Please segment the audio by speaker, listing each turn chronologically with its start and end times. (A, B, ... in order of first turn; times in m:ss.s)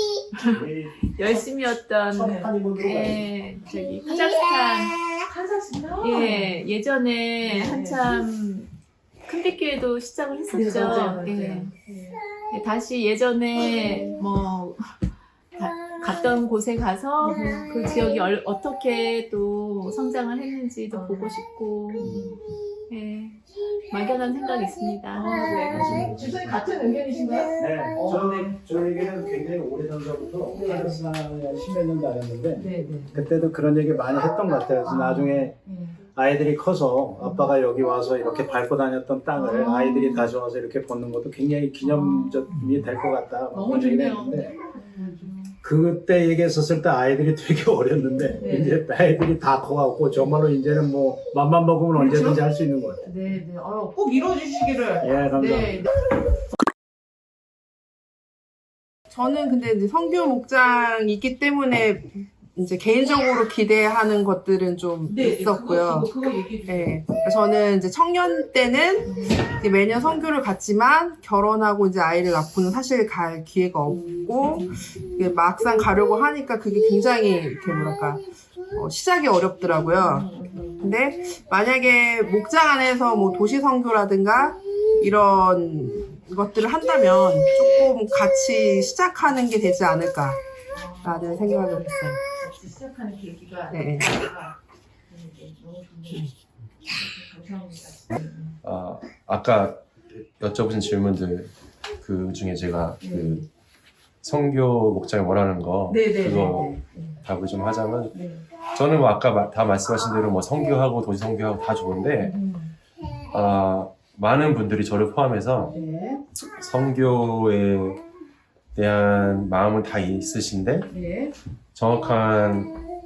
0:00.3-0:05.0 A
0:00.5-0:03.3 B
0:05.2-0:06.5 C
0:06.0-0:08.7 A
0:07.4-0:08.0 C
0:09.2-0:11.8 A
0:10.5-0:12.2 C
0:12.5-0:22.2 A
0:17.2-0:17.6 C
0:20.9-0:21.2 C
0:22.0-0:22.4 B
0:22.9-0:25.7 A
0:25.1-0:28.6 C
0:25.7-0:26.6 B
0:27.6-0:44.5 B
0:30.5-0:31.1 C
0:32.6-0:33.1 C
0:34.8-0:36.0 C
0:37.2-0:37.5 C
0:39.4-0:40.2 C
0:41.8-0:42.5 C
0:43.5-0:45.5 C
0:45.6-0:53.1 B
0:48.4-0:48.8 C
0:51.9-0:52.4 C
0:53.0-0:55.9 C
0:55.0-0:55.9 B
0:59.1-1:06.1 D
1:05.1-1:07.0 C
1:06.6-1:30.4 D
1:09.0-1:09.4 C
1:13.9-1:14.7 C
1:19.9-1:20.8 C
1:30.7-1:34.5 C
1:31.0-1:32.1 D
1:33.7-1:34.3 D
1:35.1-1:36.3 C
1:36.9-1:38.5 C
1:38.6-1:43.5 E
1:43.0-1:43.4 C
1:44.2-1:52.4 E
1:45.9-1:47.0 C
1:52.2-1:52.7 C
1:53.3-1:55.8 E
1:55.7-1:56.2 C
1:56.3-1:58.0 E
1:58.7-2:00.9 E
2:00.9-2:01.3 C
2:01.7-2:02.8 E